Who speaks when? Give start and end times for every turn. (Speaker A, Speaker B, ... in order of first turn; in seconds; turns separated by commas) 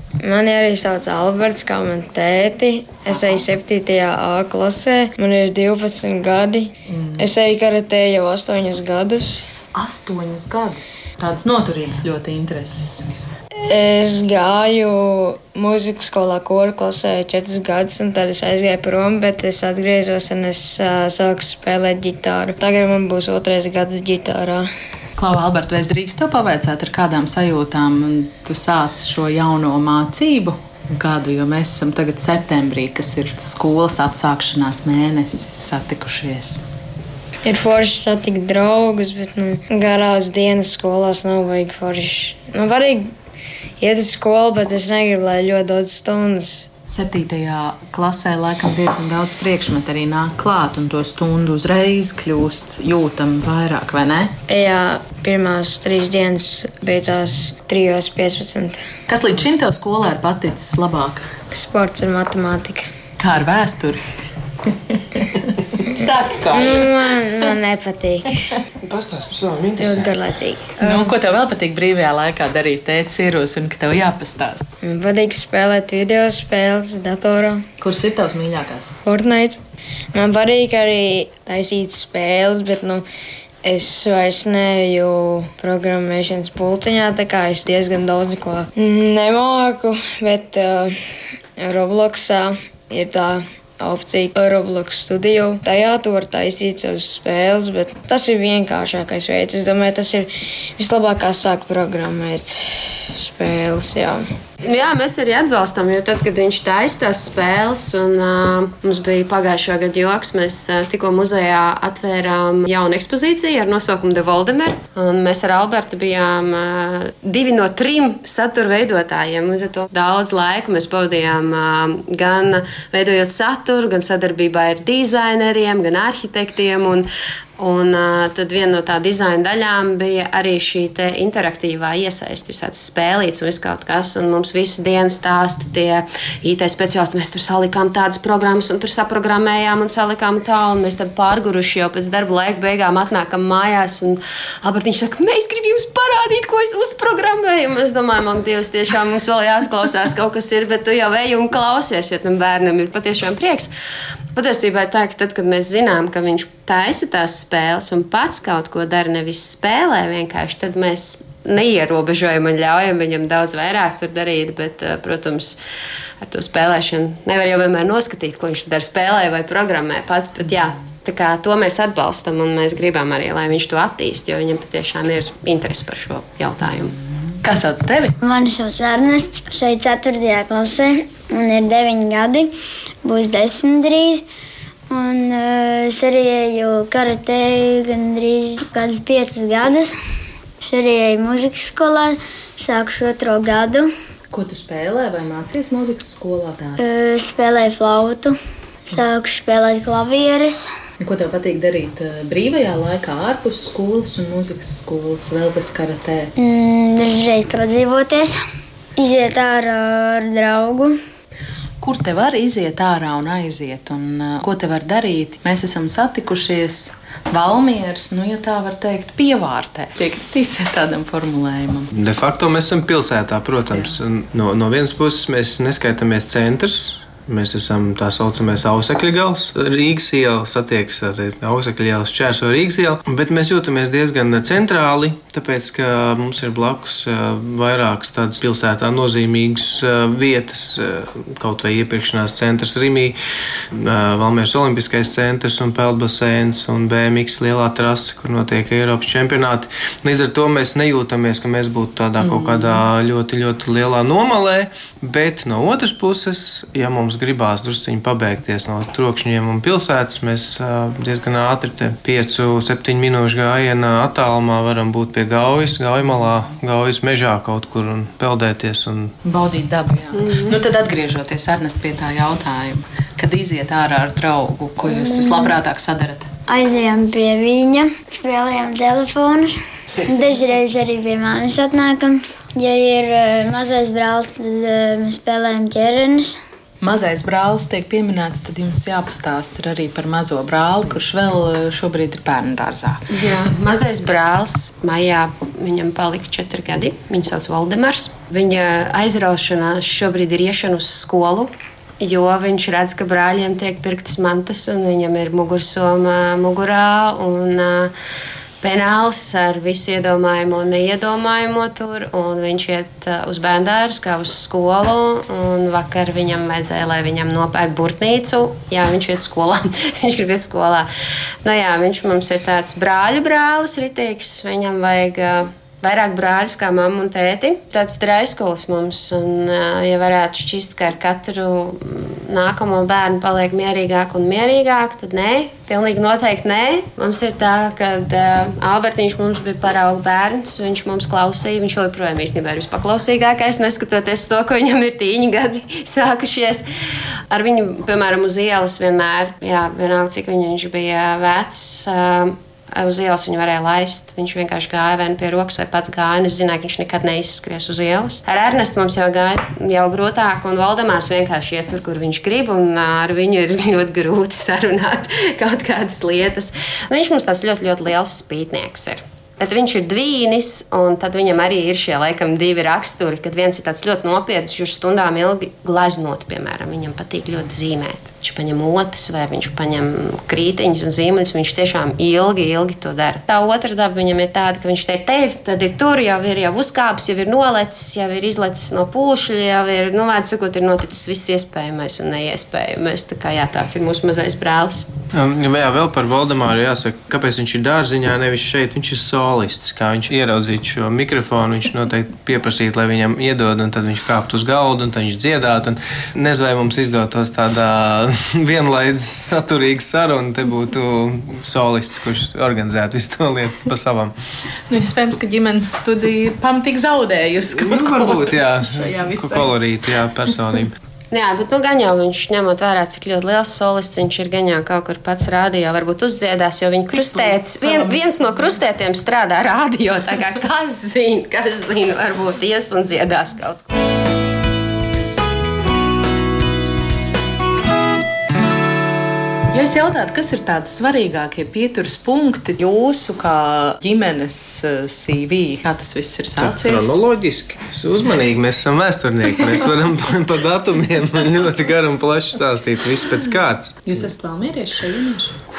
Speaker A: 0.2-9.5, Speaker B: 6.9-7.3, Speaker B: 9.7-13.1, Speaker A: 13.7-24.7, Speaker B: 25.2-36.6, Speaker A: 37.4-43.1, Speaker A: 43.8-46.7, Speaker B: 46.9-54.3, Speaker A: 54.5-58.8, Speaker B: 59.1-61.3, Speaker A: 61.5-62.9, Speaker B: 63.2-64.1, Speaker B: 64.9-65.6, Speaker A: 65.9-68.5, Speaker C: 66.0-66.8, Speaker C: 68.8-70.1, Speaker A: 69.8-71.1, Speaker B: 70.8-74.7, Speaker A: 74.8-77.7, Speaker B: 77.8-79.0, Speaker A: 79.0-79.6, Speaker A: 80.1-83.0, Speaker A: 83.6-90.9, Speaker A: 91.6-104.2, Speaker D: 104.6-127.1, Speaker D: 127.6-153.7, Speaker D: 154.3-165.6, Speaker D: 166.2-177.0, Speaker B: 177.4-178.2, Speaker E: 178.2-182.5, Speaker E: 183.0-184.2, Speaker E: 184.9-189.9, Speaker E: 190.6-193.9, Speaker B: 194.3-196.8, Speaker E: 196.8-198.3, Speaker E: 198.9-200.7, Speaker B: 201.0-206.3, Speaker E: 206.4-208.4, Speaker E: 208.9-211.0, Speaker B: 211.8-221.9, Speaker C: 221.9-243.2, Speaker C: 243.7-269.1, Speaker B: 252.2-252.8, Speaker B: 269.2-276.3, Speaker D: 270.2-270.5, Speaker E: 274.9-275.5, Speaker E: 276.5-286.4, Speaker B: 286.8-293.1, Speaker D: 293.1-307.9, Speaker D: 308.6-320.9, Speaker D: 321.4-346.6, Speaker D: 347.3-394.9, Speaker C: 395.1-414.1, Speaker B: 414.7-419.6, Speaker C: 417.6-420.8, Speaker D: 421.1-433.7, Speaker B: 427.6-428.0, Speaker B: 439.5-447.0, Speaker C: 446.4-453.8, Speaker B: 453.8-455.4